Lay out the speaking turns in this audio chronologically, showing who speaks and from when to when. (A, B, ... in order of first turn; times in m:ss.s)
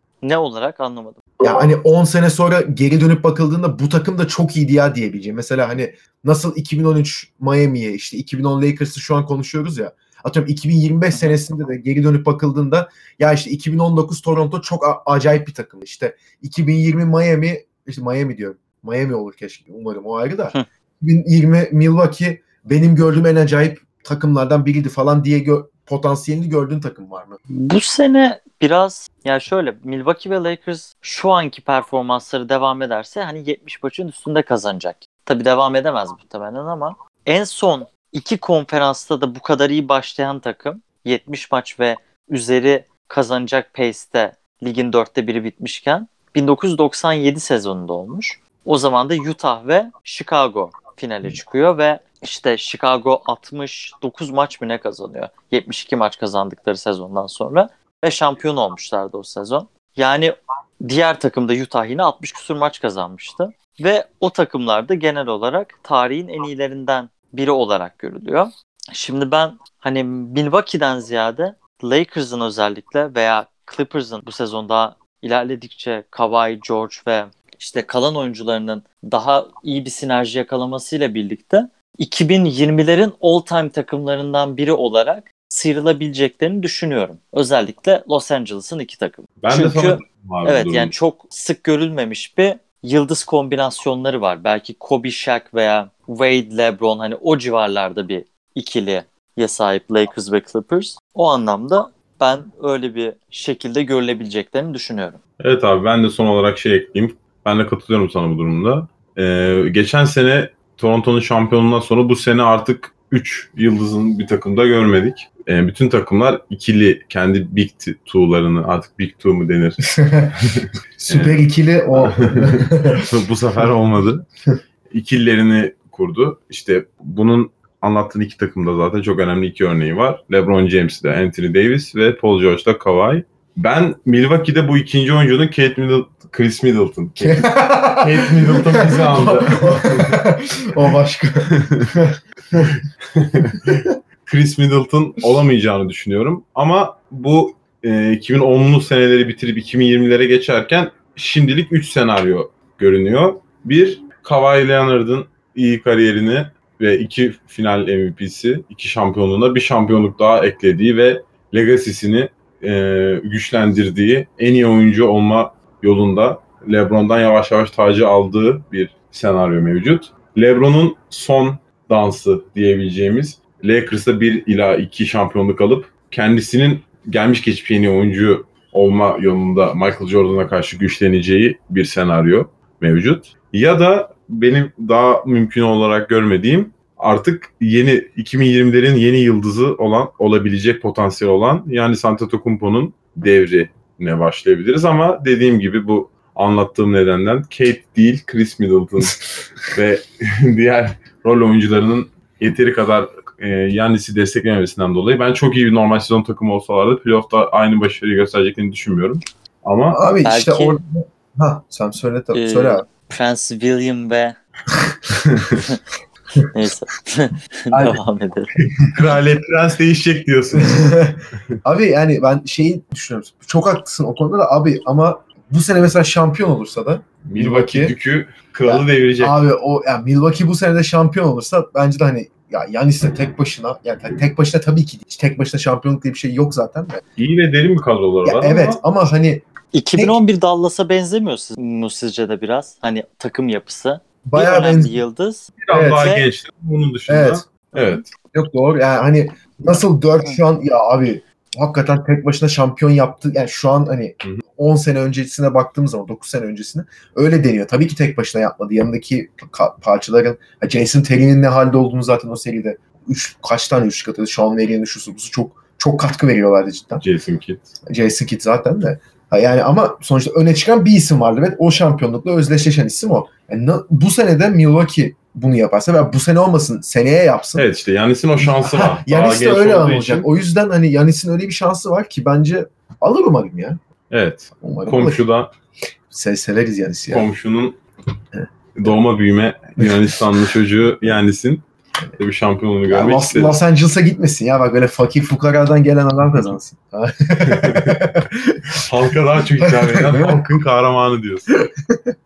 0:00.2-0:01.2 A
0:01.4-0:27.4 B
0:27.5-1:45.2 A
1:29.4-1:30.9 C
1:45.4-1:59.9 C
1:59.9-2:00.4 B
2:00.4-2:04.3 C
2:01.0-2:03.0 B
2:04.9-2:20.2 C
2:17.2-2:22.8 B
2:21.6-2:21.9 C
2:23.1-3:19.2 C
3:19.7-3:30.0 C
3:29.9-3:32.8 B
3:30.2-3:30.8 A
3:32.3-3:34.4 A
3:36.5-3:38.5 A
3:37.7-3:38.0 B
3:39.0-3:40.9 C
3:40.5-3:47.9 B
3:47.2-3:49.4 C
3:48.6-3:57.0 B
3:57.2-3:58.8 C
3:58.2-4:00.2 B
3:59.7-4:06.3 A
4:04.3-4:05.0 B
4:05.6-4:08.1 C
4:05.7-4:06.1 B
4:07.1-4:07.5 B
4:07.7-4:08.0 A
4:08.3-4:27.0 B
4:27.0-4:27.7 C
4:27.9-4:37.7 B
4:37.6-4:40.3 C
4:38.4-4:43.8 B
4:44.1-4:45.5 C
4:44.6-4:45.2 B
4:46.1-4:47.3 B
4:47.1-4:47.8 C
4:48.3-4:49.0 B
4:48.8-4:51.7 C
4:49.8-4:50.2 B
4:52.2-4:53.6 C
4:52.9-4:58.8 B
4:57.4-4:58.0 C
4:58.8-5:01.5 C
4:59.6-5:00.4 B